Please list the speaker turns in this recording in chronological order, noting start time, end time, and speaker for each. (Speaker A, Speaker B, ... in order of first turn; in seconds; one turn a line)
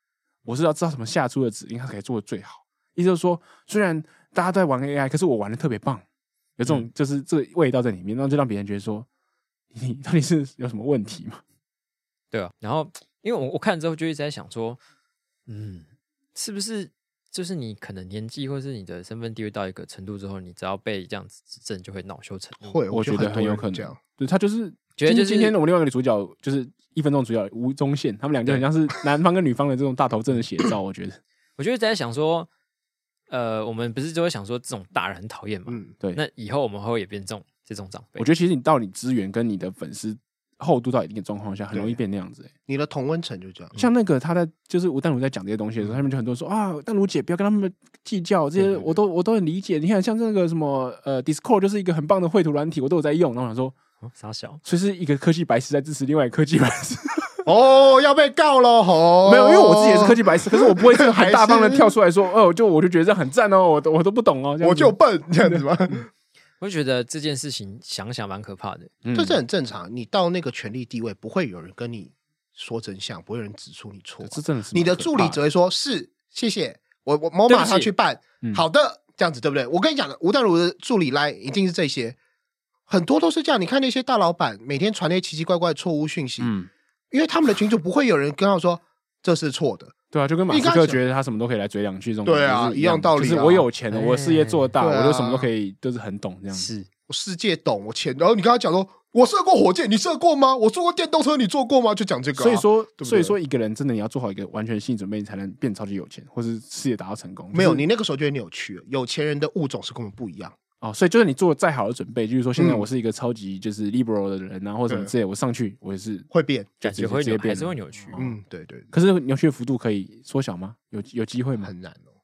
Speaker A: 0.4-6.0
Speaker A: 6.6-9.1
Speaker A: 9.7-11.4
Speaker B: 12.3-14.8
Speaker B: 15.5-22.8
Speaker C: 22.6-24.0
Speaker A: 22.9-31.2
Speaker B: 25.0-25.6
Speaker B: 31.6-32.5
Speaker B: 33.3-38.3
Speaker C: 35.7-35.9
Speaker A: 38.2-42.5
Speaker C: 41.7-42.0
Speaker C: 42.7-43.8
Speaker A: 43.8-53.7
Speaker C: 48.6-49.0
Speaker B: 54.0-54.6
Speaker A: 54.6-57.4
Speaker C: 57.5-61.9
Speaker A: 59.2-65.6
Speaker C: 64.6-66.1
Speaker B: 66.6-68.9
Speaker A: 69.0-69.4
Speaker C: 69.1-82.2
Speaker A: 74.2-75.4
Speaker B: 77.5-77.9
Speaker C: 82.9-86.5
Speaker A: 86.4-86.7
Speaker C: 87.1-89.9
Speaker A: 90.1-96.7
Speaker C: 90.5-91.0
Speaker C: 92.2-93.7
Speaker B: 93.9-94.7
Speaker C: 94.8-95.5
Speaker B: 96.5-96.9
Speaker C: 97.1-103.3
Speaker A: 102.3-107.8
Speaker C: 107.5-110.5
Speaker A: 110.8-116.3
Speaker C: 112.6-112.8
Speaker C: 116.3-116.7
Speaker A: 116.8-118.2
Speaker B: 116.8-118.3
Speaker C: 118.2-118.9
Speaker A: 118.9-121.7
Speaker C: 121.6-122.1